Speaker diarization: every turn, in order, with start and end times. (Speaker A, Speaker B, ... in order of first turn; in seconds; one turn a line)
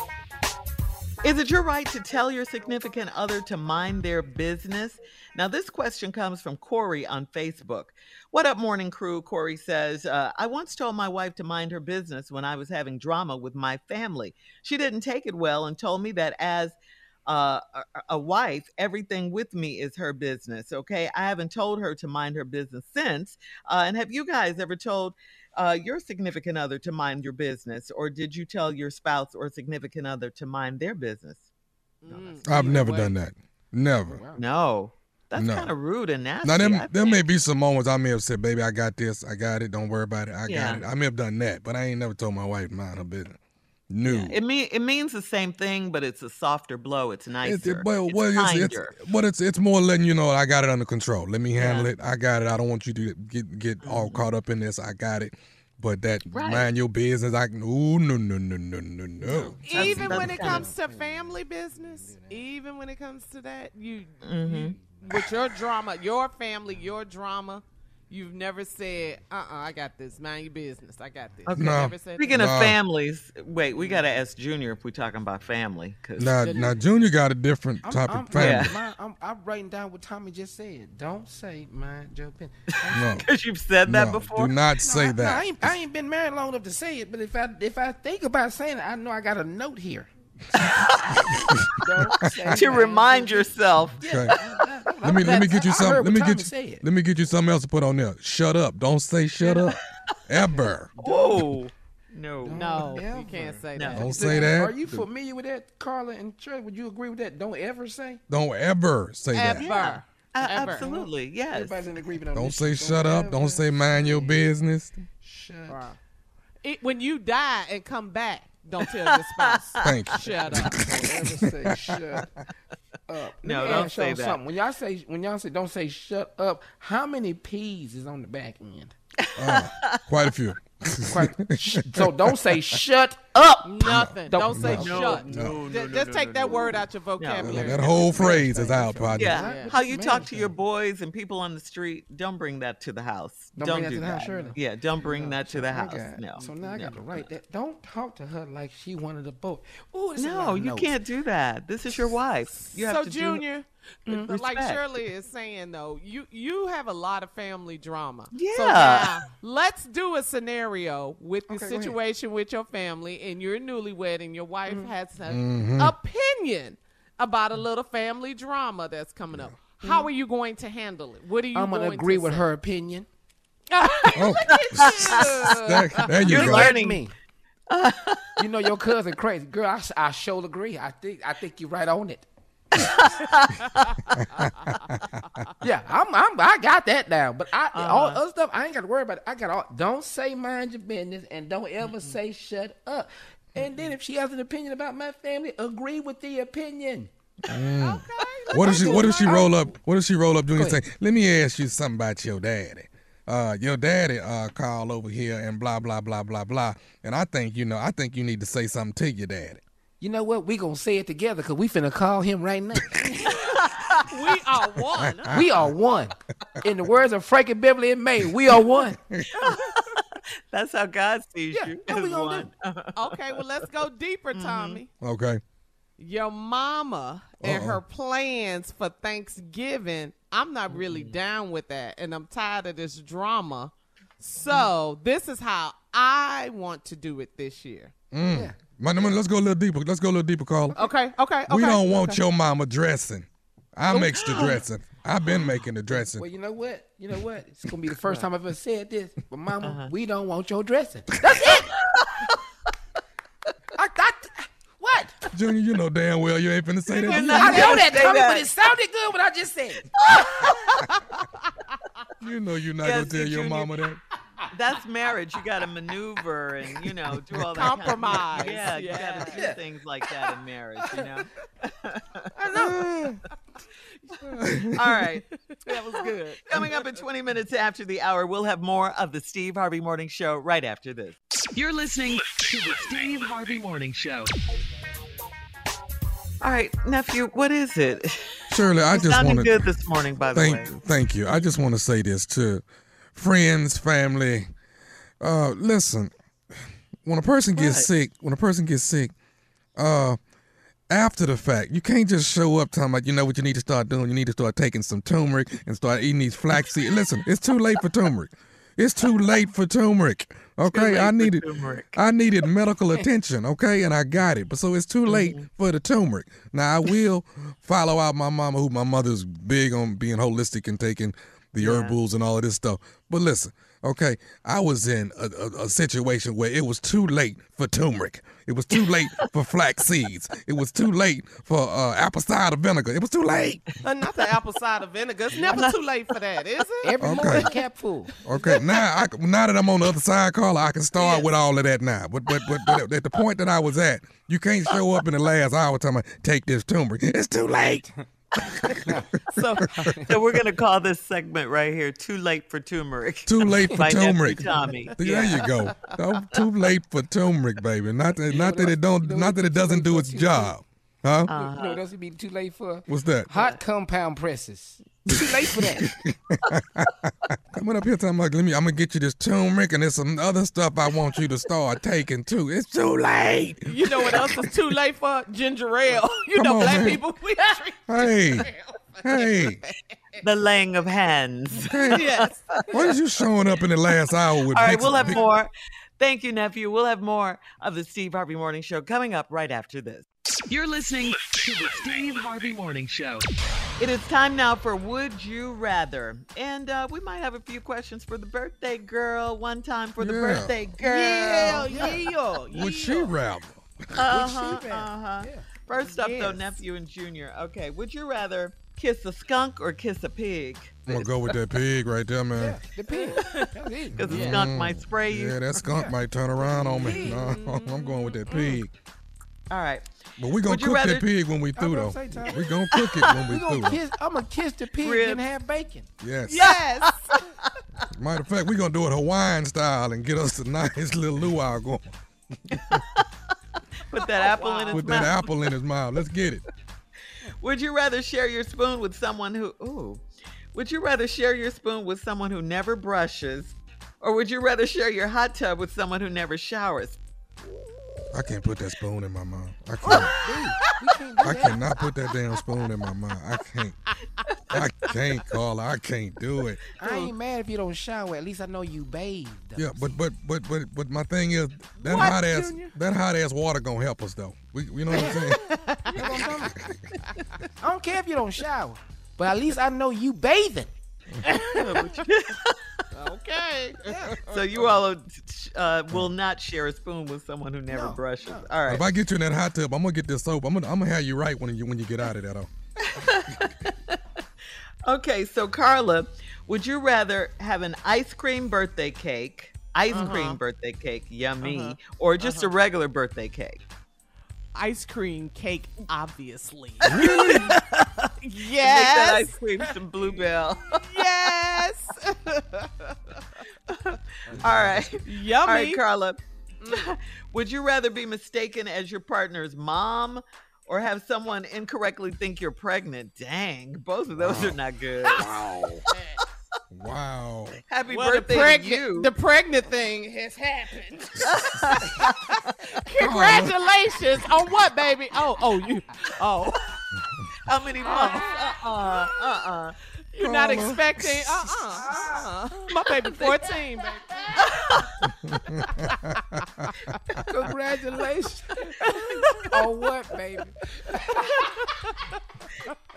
Speaker A: 1.2-31.4
Speaker B: 32.0-33.1
Speaker A: 32.1-32.4
Speaker C: 32.4-34.2
Speaker D: 34.0-34.4
Speaker A: 34.4-37.2
Speaker C: 35.4-35.7
Speaker C: 36.4-43.4
Speaker A: 40.5-40.8
Speaker C: 43.9-44.4
Speaker A: 44.0-49.0
Speaker C: 47.4-60.1
Speaker A: 51.5-51.9
Speaker A: 53.8-54.2
Speaker D: 56.2-56.7
Speaker D: 59.2-61.2
Speaker B: 59.6-72.4
Speaker A: 59.7-60.7
Speaker D: 62.0-62.4
Speaker A: 64.2-65.2
Speaker D: 64.8-65.0
Speaker A: 71.5-76.6
Speaker C: 71.5-72.8
Speaker C: 76.2-78.7
Speaker D: 77.8-83.3
Speaker A: 78.3-78.7
Speaker A: 82.9-84.5
Speaker C: 82.9-83.2
Speaker C: 83.8-85.8
Speaker D: 84.8-90.1
Speaker A: 90.6-91.0
Speaker C: 91.5-92.4
Speaker D: 91.8-96.8
Speaker A: 92.5-94.4
Speaker C: 94.0-94.3
Speaker C: 95.0-100.9
Speaker D: 100.6-101.6
Speaker A: 101.0-103.1
Speaker D: 102.4-108.2
Speaker B: 102.5-104.4
Speaker A: 103.7-104.5
Speaker C: 103.9-105.0
Speaker C: 108.3-109.7
Speaker B: 109.3-111.1
Speaker A: 109.6-111.8
Speaker D: 111.5-114.5
Speaker C: 112.3-114.9
Speaker D: 115.2-115.9
Speaker B: 115.7-116.0
Speaker B: 116.6-120.8
Speaker A: 118.8-120.7
Speaker C: 119.8-121.8
Speaker D: 120.7-122.3
Speaker D: 123.1-128.9
Speaker A: 123.4-124.4
Speaker A: 129.3-130.0
Speaker C: 129.4-132.5
Speaker D: 131.0-136.8
Speaker B: 133.6-139.9
Speaker C: 133.8-135.8
Speaker A: 134.7-136.0
Speaker A: 137.2-138.4
Speaker C: 137.4-139.4
Speaker D: 138.2-140.5
Speaker A: 139.2-147.2
Speaker D: 143.5-150.9
Speaker A: 150.2-153.4
Speaker B: 152.5-172.4
Speaker A: 154.1-154.8
Speaker A: 158.3-159.2
Speaker D: 161.5-161.9
Speaker C: 165.3-165.9
Speaker A: 169.8-170.1
Speaker D: 171.5-173.1
Speaker B: 173.7-176.2
Speaker C: 174.2-176.8
Speaker A: 174.5-175.5
Speaker D: 175.1-177.1
Speaker A: 176.2-177.0
Speaker A: 177.7-178.4
Speaker D: 178.4-182.2
Speaker A: 182.8-183.5
Speaker D: 185.6-197.1
Speaker A: 187.7-188.2
Speaker A: 191.8-192.1
Speaker C: 197.5-209.6
Speaker B: 197.5-199.7
Speaker D: 198.5-199.6
Speaker D: 200.5-200.8
Speaker D: 210.0-213.0
Speaker B: 213.1-213.5
Speaker B: 214.1-215.4
Speaker C: 215.0-215.7
Speaker D: 215.3-219.0
Speaker A: 219.3-219.8
Speaker A: 220.5-223.4
Speaker D: 221.5-222.5
Speaker B: 222.9-224.9
Speaker A: 224.3-224.8
Speaker C: 225.0-225.4
Speaker B: 226.0-237.9
Speaker C: 227.4-227.8
Speaker A: 230.7-231.2
Speaker C: 238.1-240.8
Speaker D: 238.3-238.6
Speaker B: 240.7-242.2
Speaker C: 241.4-246.2
Speaker D: 243.9-244.6
Speaker A: 244.2-244.6
Speaker D: 245.4-251.7
Speaker A: 249.6-249.9
Speaker A: 251.9-252.3
Speaker D: 253.8-255.3
Speaker C: 255.3-257.9
Speaker A: 256.9-258.5
Speaker D: 257.1-259.9
Speaker A: 260.0-260.8
Speaker C: 262.2-264.0
Speaker A: 262.8-263.8
Speaker A: 264.5-272.3
Speaker B: 267.5-269.5
Speaker D: 268.6-271.1
Speaker C: 272.5-273.2
Speaker C: 274.4-274.8
Speaker A: 274.8-275.2
Speaker B: 275.5-277.0
Speaker A: 276.4-281.2
Speaker E: 281.5-284.3
Speaker A: 286.4-288.3
Speaker C: 288.5-289.6
Speaker A: 288.8-290.7
Speaker C: 290.3-292.6
Speaker C: 293.1-294.5
Speaker C: 295.2-296.1
Speaker C: 297.0-299.1
Speaker A: 297.5-297.9
Speaker C: 299.8-300.2
Speaker C: 300.9-333.6
Speaker A: 310.7-311.9
Speaker A: 315.1-315.5
Speaker A: 321.6-321.9
Speaker A: 328.7-329.3
Speaker B: 333.8-337.5
Speaker A: 335.5-335.8
Speaker D: 336.8-338.1
Speaker C: 337.0-337.5
Speaker C: 338.2-347.9
Speaker B: 341.0-341.3
Speaker C: 348.6-349.0
Speaker D: 348.7-349.0
Speaker B: 349.4-349.6
Speaker C: 349.6-349.9
Speaker D: 349.8-350.2
Speaker A: 350.1-356.4
Speaker C: 353.2-361.3
Speaker D: 353.5-353.9
Speaker D: 354.4-354.7
Speaker B: 355.0-355.5
Speaker D: 358.3-360.5
Speaker A: 361.3-361.8
Speaker D: 361.3-365.9
Speaker C: 362.9-363.3
Speaker A: 363.3-363.6
Speaker C: 365.8-366.9
Speaker C: 367.5-374.5
Speaker B: 373.6-378.5
Speaker C: 376.3-377.0
Speaker C: 377.9-378.5
Speaker D: 378.4-379.2
Speaker C: 379.0-379.6
Speaker B: 379.1-379.5
Speaker A: 380.2-382.9
Speaker C: 381.6-382.1
Speaker B: 381.8-383.0
Speaker C: 382.7-385.2
Speaker A: 384.4-390.1
Speaker E: 390.4-393.3
Speaker A: 393.8-402.0
Speaker C: 400.0-400.6
Speaker B: 400.8-403.2
Speaker D: 401.7-402.2
Speaker C: 402.5-403.7
Speaker A: 404.0-411.0
Speaker D: 404.1-405.5
Speaker B: 405.8-406.6
Speaker C: 410.9-412.6
Speaker D: 412.3-414.2
Speaker B: 412.9-413.5
Speaker A: 413.2-415.6
Speaker B: 414.0-414.5
Speaker C: 414.1-418.7
Speaker D: 415.6-415.9
Speaker D: 416.6-417.3
Speaker B: 416.6-418.6
Speaker A: 419.5-421.1
Speaker C: 420.2-423.8
Speaker D: 421.5-422.4
Speaker A: 422.3-423.1
Speaker D: 423.2-425.9
Speaker A: 424.8-425.2
Speaker C: 426.0-426.5
Speaker B: 426.2-427.1
Speaker A: 426.4-426.9
Speaker C: 427.9-431.9
Speaker A: 432.7-433.0
Speaker A: 433.9-435.4
Speaker B: 434.1-435.1
Speaker C: 434.7-436.4
Speaker A: 437.4-447.0
Speaker C: 448.1-450.1
Speaker D: 449.8-451.7
Speaker B: 449.8-451.5
Speaker C: 451.2-453.8
Speaker B: 454.5-455.2
Speaker C: 454.5-456.6
Speaker D: 456.8-459.9
Speaker B: 456.8-457.1
Speaker C: 459.6-465.4
Speaker B: 461.8-462.7
Speaker D: 461.9-462.7
Speaker D: 464.9-466.6
Speaker B: 464.9-466.7
Speaker D: 467.6-470.7
Speaker B: 471.2-472.0
Speaker A: 471.6-472.6
Speaker B: 472.9-474.7
Speaker D: 473.8-474.1
Speaker A: 474.3-478.9
Speaker D: 477.7-478.5
Speaker C: 478.6-482.5
Speaker A: 482.8-484.0
Speaker A: 484.8-493.6
Speaker B: 489.9-490.4
Speaker B: 491.4-492.6
Speaker B: 494.5-497.5
Speaker C: 496.9-497.5
Speaker A: 496.9-497.5
Speaker B: 498.2-499.4
Speaker A: 498.6-501.3
Speaker B: 500.8-503.0
Speaker A: 503.7-515.3
Speaker D: 504.3-504.9
Speaker B: 505.0-505.8
Speaker B: 506.6-506.9
Speaker C: 514.2-514.5
Speaker D: 515.1-515.8
Speaker C: 516.7-517.6
Speaker A: 517.7-519.1
Speaker B: 517.9-520.0
Speaker D: 520.0-521.1
Speaker A: 521.3-521.7
Speaker B: 521.6-526.6
Speaker C: 523.0-523.6
Speaker A: 527.5-529.7
Speaker B: 527.8-528.5
Speaker D: 527.9-528.3
Speaker B: 530.1-534.4
Speaker C: 530.2-531.4
Speaker D: 531.8-533.8
Speaker A: 534.5-534.9
Speaker D: 537.2-541.2
Speaker B: 541.6-541.9